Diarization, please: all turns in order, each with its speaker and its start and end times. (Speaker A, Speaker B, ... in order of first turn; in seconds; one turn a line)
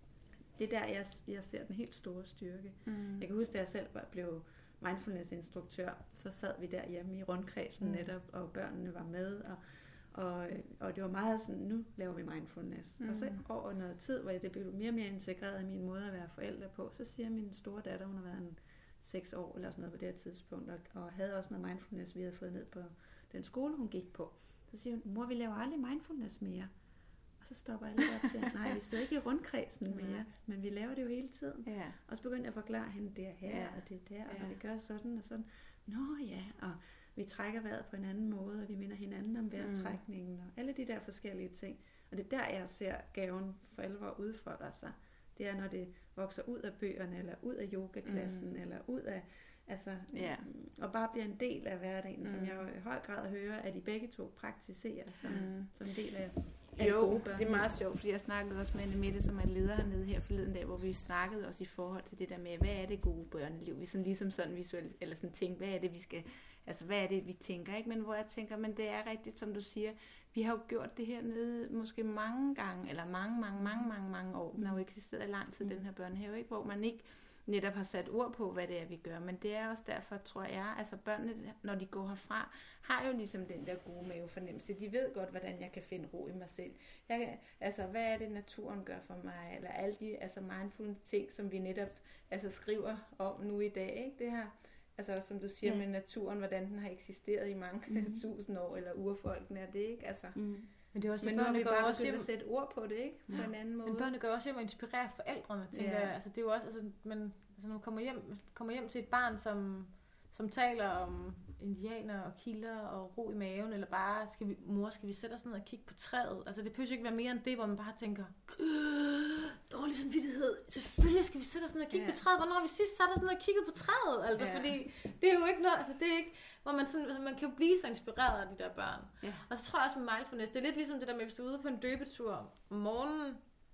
Speaker A: 0.5-26.7
Speaker B: 2.9-3.2
Speaker B: 13.0-13.4
Speaker A: 27.4-57.7
Speaker B: 31.6-32.0
Speaker B: 33.5-34.6
Speaker B: 39.6-40.0
Speaker B: 48.0-48.4
Speaker B: 50.1-50.4
Speaker B: 52.2-52.6
Speaker B: 55.3-55.7
Speaker B: 56.8-100.4
Speaker A: 97.9-98.2
Speaker A: 100.3-100.7
Speaker C: 100.9-102.3
Speaker B: 101.2-104.1
Speaker C: 103.3-133.4
Speaker B: 105.7-106.1
Speaker B: 124.3-124.8